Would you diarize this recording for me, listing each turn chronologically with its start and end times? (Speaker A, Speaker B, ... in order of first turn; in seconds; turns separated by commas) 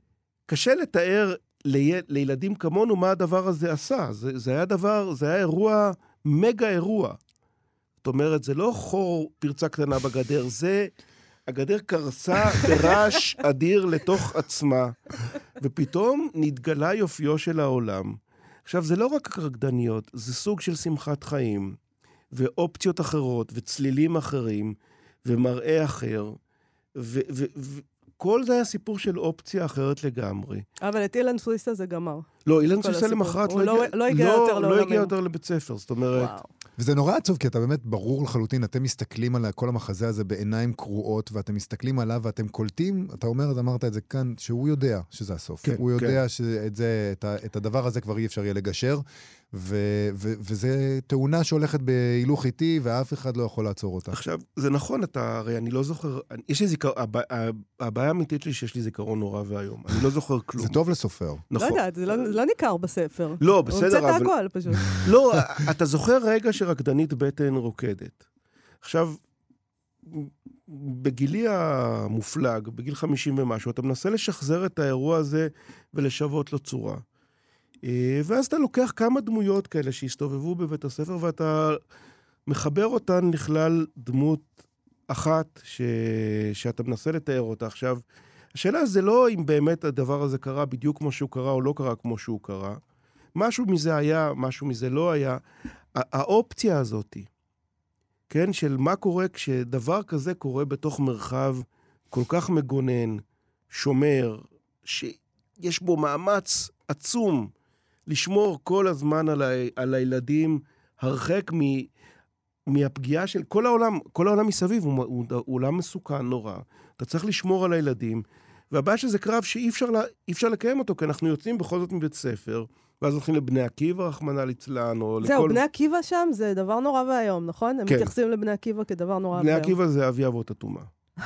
Speaker A: 0.5-7.2, Speaker A: 8.0-10.9, Speaker A: 11.5-21.8, Speaker A: 22.3-26.4, Speaker A: 26.9-30.6, Speaker B: 30.8-32.3, Speaker A: 32.5-36.3, Speaker B: 32.8-35.1, Speaker B: 36.1-36.5, Speaker C: 36.8-54.2, Speaker A: 45.6-46.2, Speaker A: 54.1-60.8, Speaker C: 60.6-61.4, Speaker A: 61.5-62.3, Speaker B: 61.6-65.0, Speaker A: 63.4-64.3, Speaker A: 64.8-68.2, Speaker A: 68.8-69.2, Speaker A: 70.0-77.0, Speaker A: 77.8-81.8, Speaker A: 82.5-84.5, Speaker A: 85.1-88.0, Speaker A: 88.5-92.8, Speaker A: 93.3-95.4, Speaker A: 96.0-97.3, Speaker A: 98.3-107.5, Speaker A: 108.1-111.9, Speaker A: 112.7-125.6, Speaker B: 125.2-129.7, Speaker A: 129.3-130.9